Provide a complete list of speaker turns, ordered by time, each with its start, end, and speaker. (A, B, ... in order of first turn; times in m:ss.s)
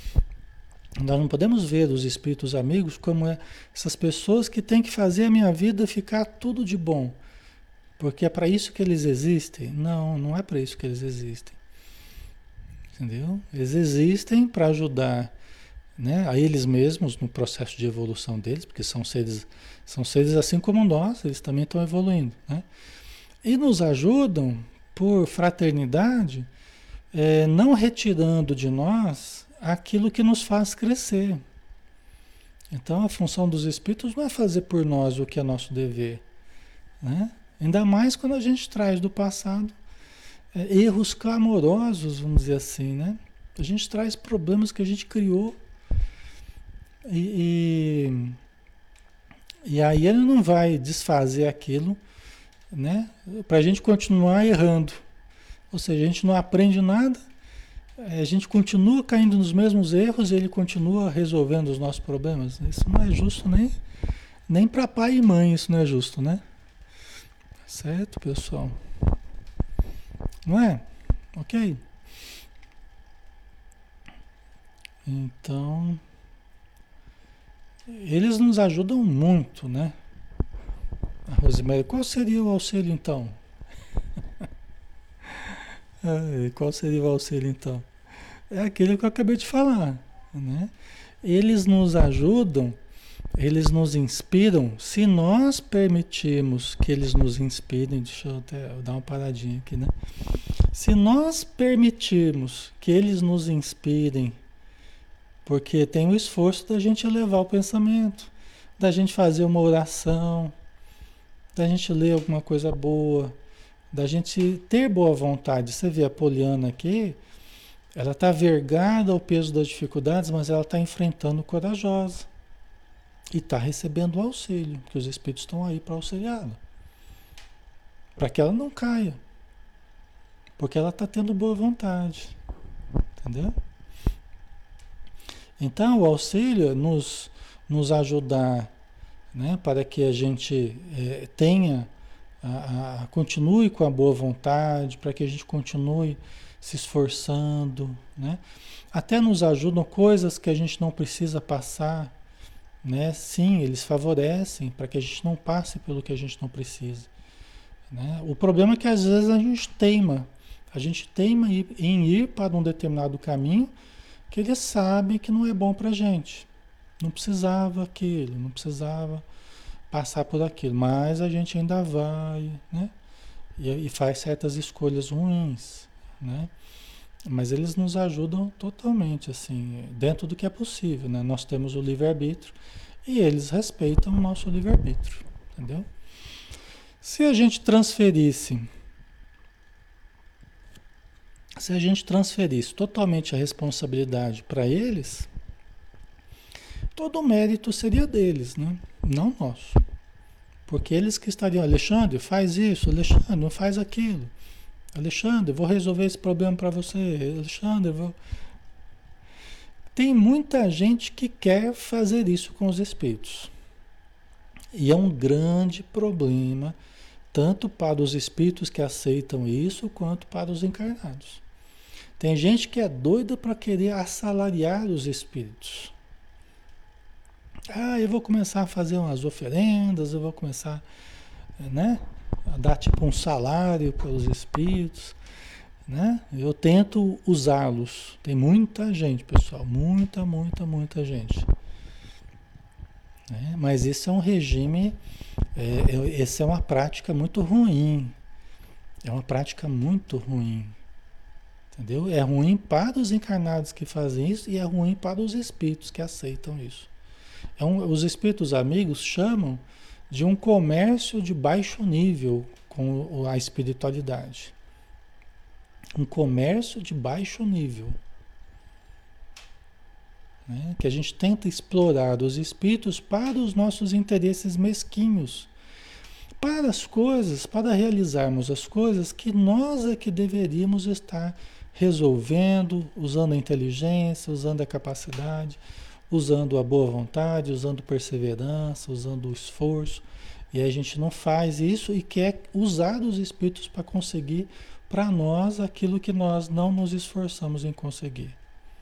0:01.0-0:07.2 A
0:08.0-0:11.6 A
0:13.0-0:15.3 A
0:16.0-0:22.6 A
0:23.4-0:26.5 A
0:27.1-0:31.4 A
0:32.7-0:36.2 A
0:37.0-0:39.8 A
0:40.5-0:45.6 A
0:47.1-0:48.4 A
0:49.6-0:52.0 A
0:52.7-0:55.0 A
0:55.7-0:57.2 A
0:58.0-1:03.8 A
1:04.5-1:06.4 A
1:07.7-1:08.8 A
1:10.5-1:11.8 A
1:15.0-1:16.0 A
1:17.9-1:20.0 A
1:21.3-1:23.4 A
1:26.0-1:27.9 A
1:28.5-1:32.8 A
1:33.3-1:39.9 A
1:40.7-1:44.4 A
1:45.4-1:50.6 A
1:51.6-1:53.4 A
1:53.9-1:57.2 A
1:58.0-2:02.3 A
2:03.3-2:06.6 A
2:08.2-2:09.2 A
2:10.6-2:12.4 A
2:13.2-2:13.6 A
2:15.6-2:18.7 A
2:19.3-2:21.9 A
2:22.4-2:28.4 A
2:28.9-2:32.1 A
2:32.8-2:37.1 A
2:37.9-2:43.7 A
2:44.3-2:46.5 A
2:47.0-2:49.2 A
2:49.9-2:52.9 A
2:53.6-2:56.5 A
2:57.3-3:05.9 A
3:07.0-3:08.7 A
3:11.6-3:15.3 A
3:17.0-3:19.8 A
3:20.7-3:24.3 A
3:24.9-3:28.2 A
3:29.9-3:33.5 A
3:34.7-3:36.8 A
3:37.3-3:41.4 A
3:42.2-3:45.9 A
3:47.7-3:50.8 A
3:51.6-3:55.2 A
3:55.9-4:01.5 A
4:03.3-4:05.0 A
4:05.6-4:08.2 A
4:09.0-4:10.8 A
4:11.7-4:16.9 A
4:17.6-4:24.5 A
4:26.0-4:28.0 A
4:30.5-4:35.5 A
4:36.4-4:45.6 A
4:46.1-4:58.4 A